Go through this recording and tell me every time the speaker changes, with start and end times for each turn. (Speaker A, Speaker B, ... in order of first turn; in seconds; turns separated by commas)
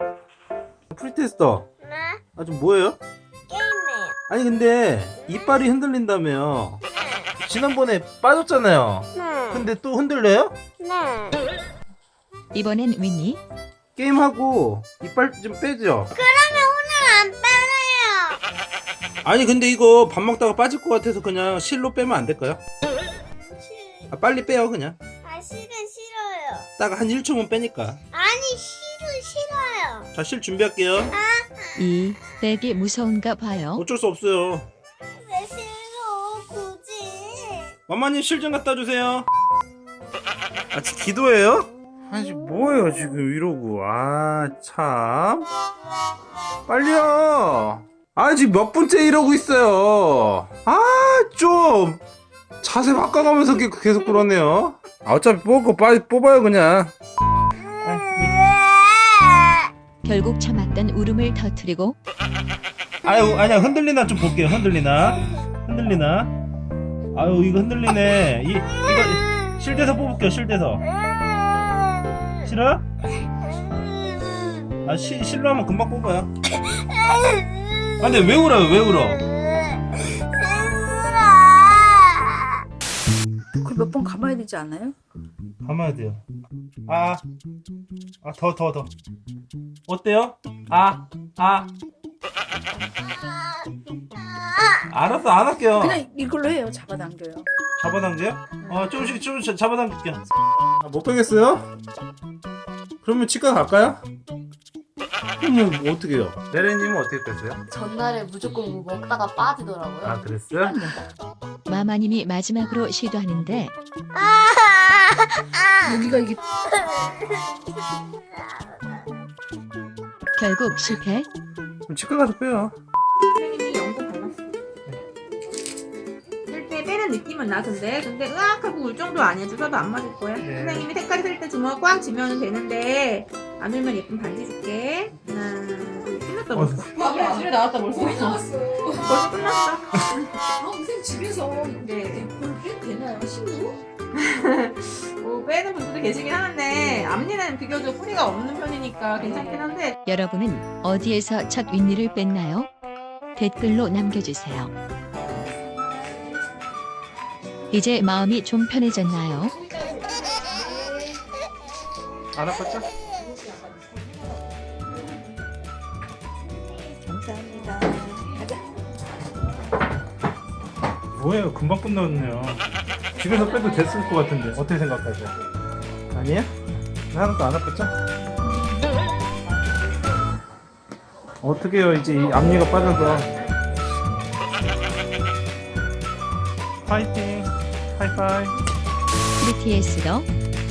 Speaker A: 0.9-1.7, Speaker B: 1.8-2.2, Speaker A: 2.4-3.0, Speaker B: 3.5-4.2, Speaker A: 4.3-6.8, Speaker B: 7.0-7.2, Speaker A: 7.4-10.6, Speaker B: 9.2-9.6, Speaker B: 10.8-11.4, Speaker C: 12.5-13.4, Speaker A: 13.9-16.1, Speaker B: 16.1-18.4, Speaker A: 19.2-22.6, Speaker B: 23.3-24.1, Speaker A: 24.1-25.0, Speaker B: 25.2-26.7, Speaker A: 26.8-28.0, Speaker B: 28.1-30.1, Speaker A: 30.1-31.1, Speaker B: 31.1-31.7, Speaker C: 31.8-33.8, Speaker A: 33.8-34.7, Speaker B: 35.1-37.7, Speaker A: 37.9-39.3, Speaker A: 40.7-45.5, Speaker A: 46.7-52.0, Speaker A: 52.6-56.9, Speaker A: 57.8-58.4, Speaker C: 60.0-62.0, Speaker A: 63.0-66.3, Speaker A: 67.1-70.8, Speaker B: 71.0-72.4, Speaker A: 72.4-72.8, Speaker B: 73.7-74.7, Speaker A: 74.8-76.3, Speaker B: 76.7-78.1, Speaker A: 78.0-79.2, Speaker B: 79.2-82.6, Speaker D: 83.6-85.0, Speaker A: 85.6-86.2, Speaker A: 86.9-87.2, Speaker A: 88.2-88.9, Speaker A: 89.9-91.7, Speaker A: 94.9-96.0, Speaker D: 95.8-97.5, Speaker A: 97.8-100.2, Speaker D: 98.7-99.1, Speaker A: 100.8-101.7, Speaker A: 103.0-104.0, Speaker A: 105.4-107.6, Speaker E: 107.7-110.2, Speaker A: 110.0-110.8, Speaker D: 110.6-111.0, Speaker C: 111.7-113.7, Speaker B: 114.1-116.0, Speaker D: 115.8-116.4, Speaker B: 116.5-119.0, Speaker C: 120.3-121.3, Speaker A: 121.9-122.8, Speaker F: 123.3-124.4, Speaker F: 126.5-140.2, Speaker A: 130.4-130.9, Speaker A: 136.5-136.9, Speaker D: 137.0-139.1, Speaker D: 140.6-143.8, Speaker F: 141.8-142.3, Speaker F: 144.1-149.9, Speaker D: 149.2-149.7, Speaker C: 150.1-152.7, Speaker C: 153.3-154.7, Speaker C: 157.7-159.5, Speaker A: 162.3-162.9, Speaker E: 167.0-168.4, Speaker A: 171.1-172.6, Speaker A: 173.2-175.3, Speaker A: 176.1-176.5, Speaker A: 177.1-177.9, Speaker A: 181.4-183.3, Speaker A: 186.8-188.5, Speaker C: 189.4-190.3